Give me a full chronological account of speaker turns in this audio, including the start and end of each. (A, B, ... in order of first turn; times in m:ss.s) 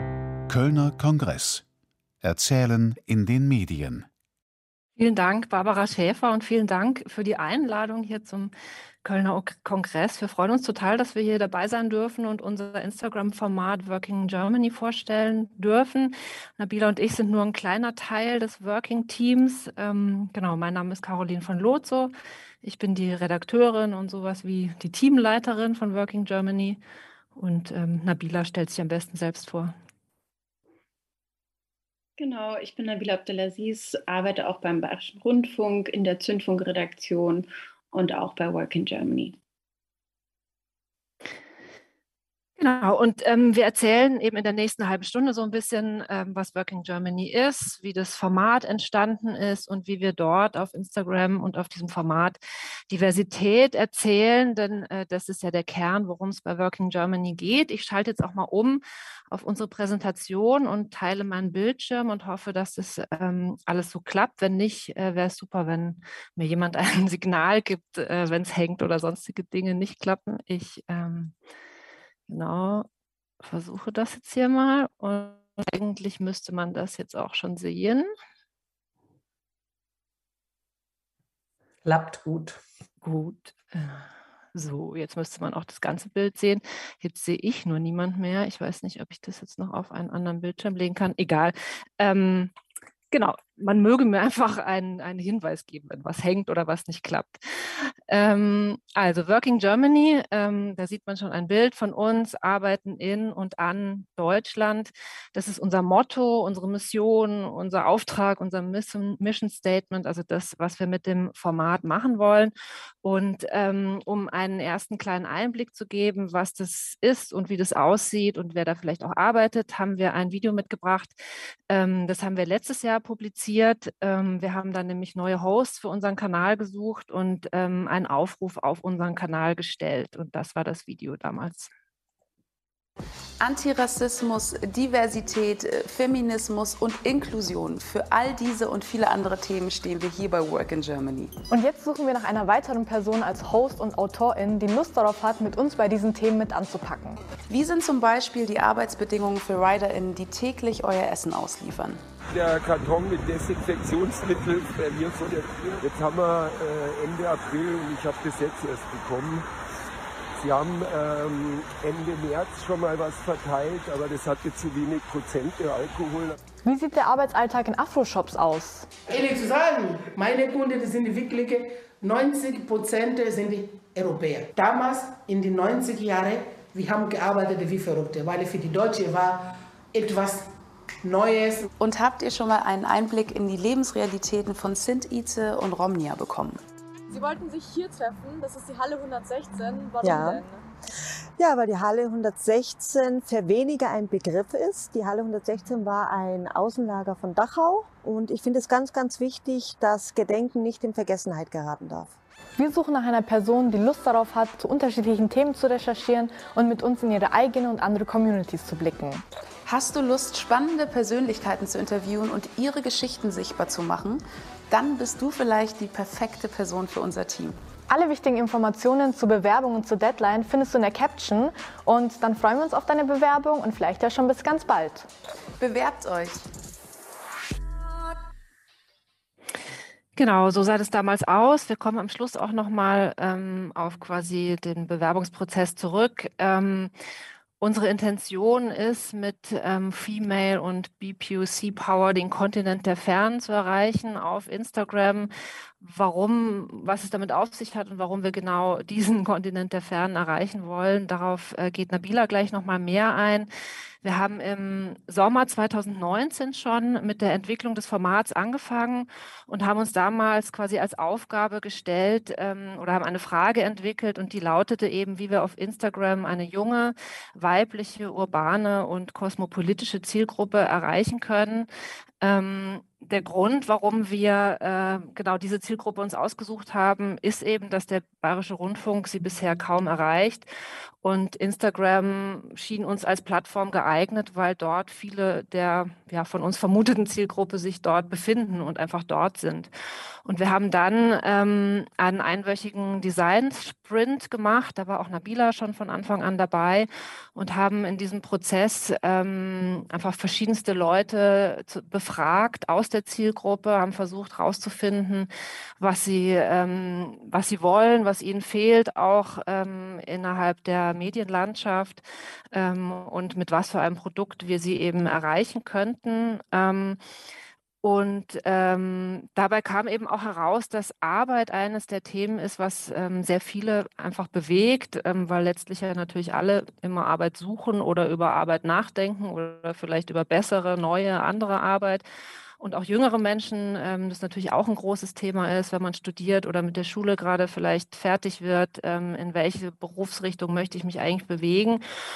0:00.5-0:01.6 A
0:02.2-0:04.1 A
0:05.0-0:08.5 B
0:09.0-0:26.8 B
0:27.3-0:29.7 B
0:32.2-0:39.4 C
0:42.6-1:11.3 B
1:12.3-1:12.9 B
1:13.4-1:18.1 B
1:21.8-1:22.6 D
1:23.0-1:32.5 B
1:33.1-2:01.2 B
2:01.7-2:11.7 B
2:13.4-2:21.3 E
2:21.5-2:27.2 F
2:27.5-2:32.0 E
2:32.3-2:39.4 G
2:40.4-2:46.3 G
2:46.6-2:48.9 F
2:49.1-2:59.4 D
2:59.9-3:00.5 D
3:01.0-3:01.7 D
3:01.8-3:06.6 E
3:07.2-3:10.4 F
3:10.0-3:10.4 H
3:11.4-3:22.1 H
3:22.6-3:29.2 F
3:29.6-3:37.6 E
3:37.9-3:45.1 F
3:45.6-3:46.4 E
3:50.2-3:56.9 B
3:57.6-4:13.5 B
4:14.0-4:31.7 B
4:32.2-4:40.5 B
4:41.0-4:49.7 B
4:50.2-5:17.0 B
5:17.8-5:32.0 B
5:32.6-5:41.8 B